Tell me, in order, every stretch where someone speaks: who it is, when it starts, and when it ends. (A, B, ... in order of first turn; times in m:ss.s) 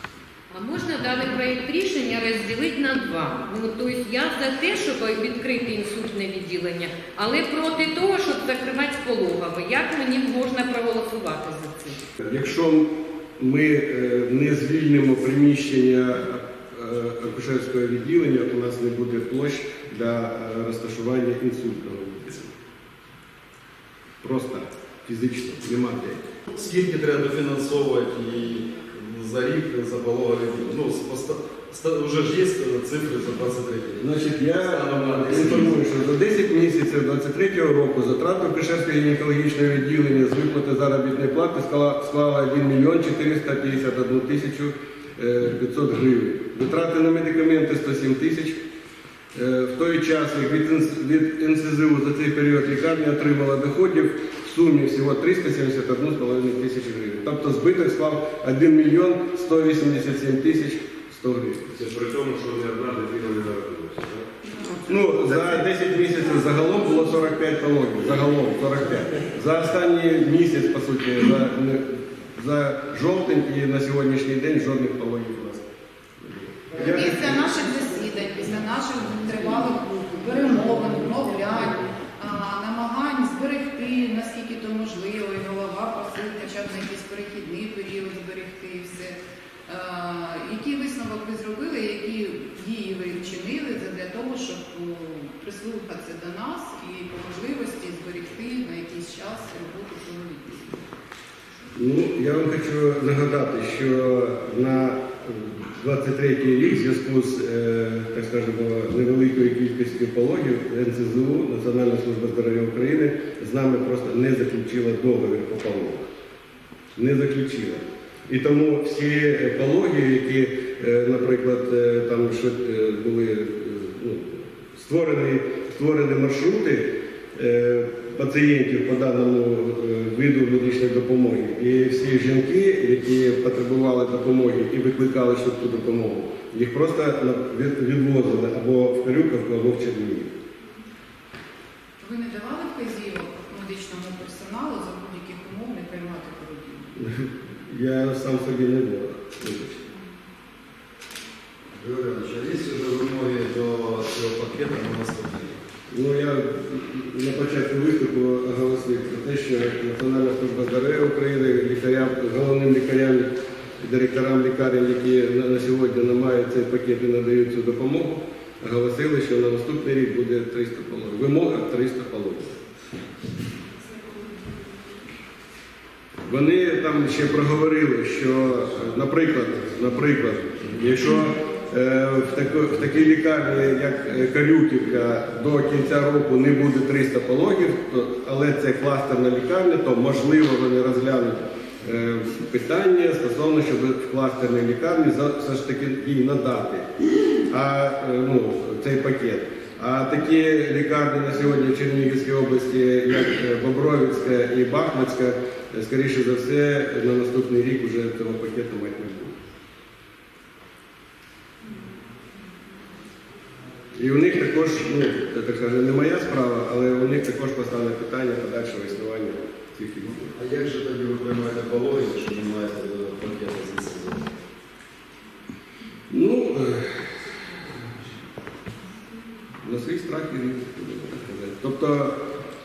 0:00.5-0:12.0 A
0:12.2-0:22.5 B
0:24.2-0:26.2 B
0:26.5-0:35.8 C
0:34.0-0:48.6 B
0:49.3-1:01.7 B
1:01.8-1:04.3 D
1:04.9-1:15.6 B
1:16.2-1:17.4 B
1:16.8-1:40.9 E
1:41.8-1:56.0 B
1:57.0-2:20.3 B
2:22.0-2:27.0 E
2:27.0-2:29.9 B
2:31.8-2:35.6 C
2:35.9-2:43.3 B
2:43.8-2:52.5 B
2:56.3-3:16.9 B
3:17.5-3:29.3 B
3:34.0-3:39.4 B
3:39.8-3:44.4 C
3:46.1-3:47.1 B
3:49.6-3:52.2 B